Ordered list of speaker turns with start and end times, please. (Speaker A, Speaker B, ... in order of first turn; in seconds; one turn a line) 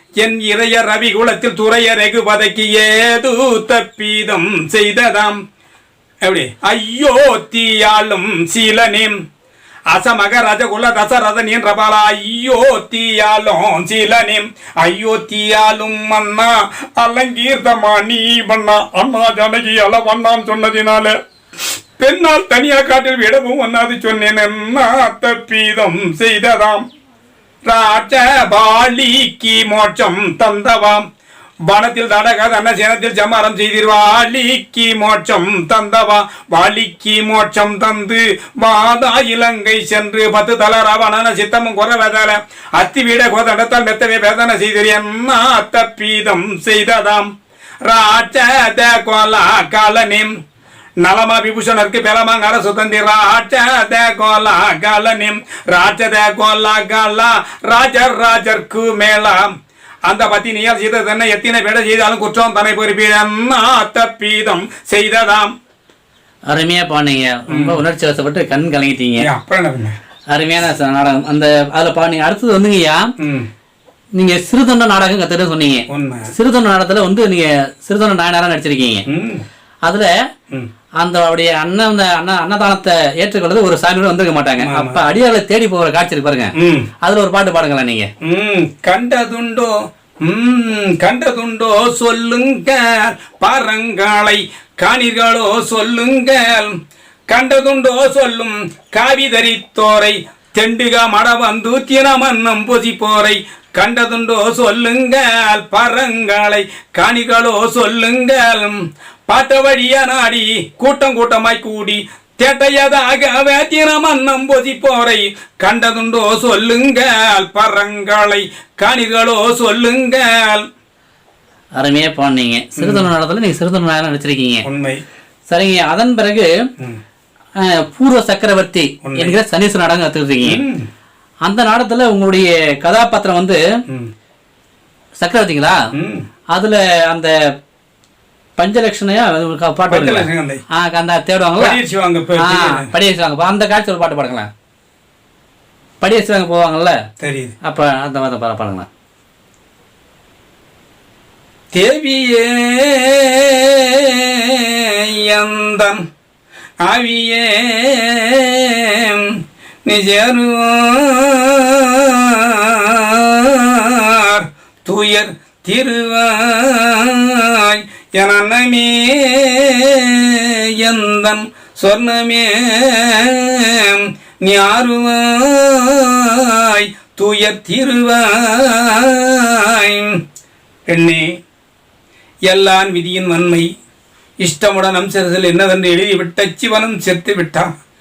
Speaker A: 0.2-5.4
Speaker A: 6.2-9.1
Speaker A: 9.9-21.2
Speaker A: 22.0-26.8
Speaker A: 27.6-31.0
Speaker A: 31.6-47.3
Speaker A: 47.8-50.3
Speaker A: 51.0-59.5
Speaker A: 60.0-65.5
Speaker B: 66.5-69.2
Speaker A: 67.5-67.8
Speaker A: 69.2-70.0
Speaker B: 70.3-73.1
Speaker A: 73.2-73.5
Speaker B: 74.2-79.0
Speaker A: 75.9-76.3
Speaker A: 79.1-79.4
Speaker B: 79.8-80.1
Speaker B: 81.0-88.1
Speaker A: 84.6-85.0
Speaker A: 86.5-86.9
Speaker A: 88.2-96.8
Speaker A: 97.3-120.7
Speaker B: 121.8-124.6
Speaker A: 122.8-123.1
Speaker A: 124.6-125.0
Speaker B: 125.5-126.5
Speaker B: 127.6-130.6
Speaker A: 129.0-129.4
Speaker A: 130.4-130.9
Speaker B: 131.4-133.6
Speaker B: 135.2-135.8
Speaker A: 135.9-136.2
Speaker B: 136.5-137.3
Speaker B: 138.6-141.8
Speaker A: 139.9-140.6
Speaker A: 141.6-142.9
Speaker B: 142.4-144.5
Speaker B: 146.0-147.0
Speaker A: 147.2-147.6
Speaker B: 147.6-148.9
Speaker A: 151.7-156.0
Speaker A: 156.8-180.2
Speaker A: 180.9-181.2
Speaker A: 182.4-183.7
Speaker A: 184.4-187.7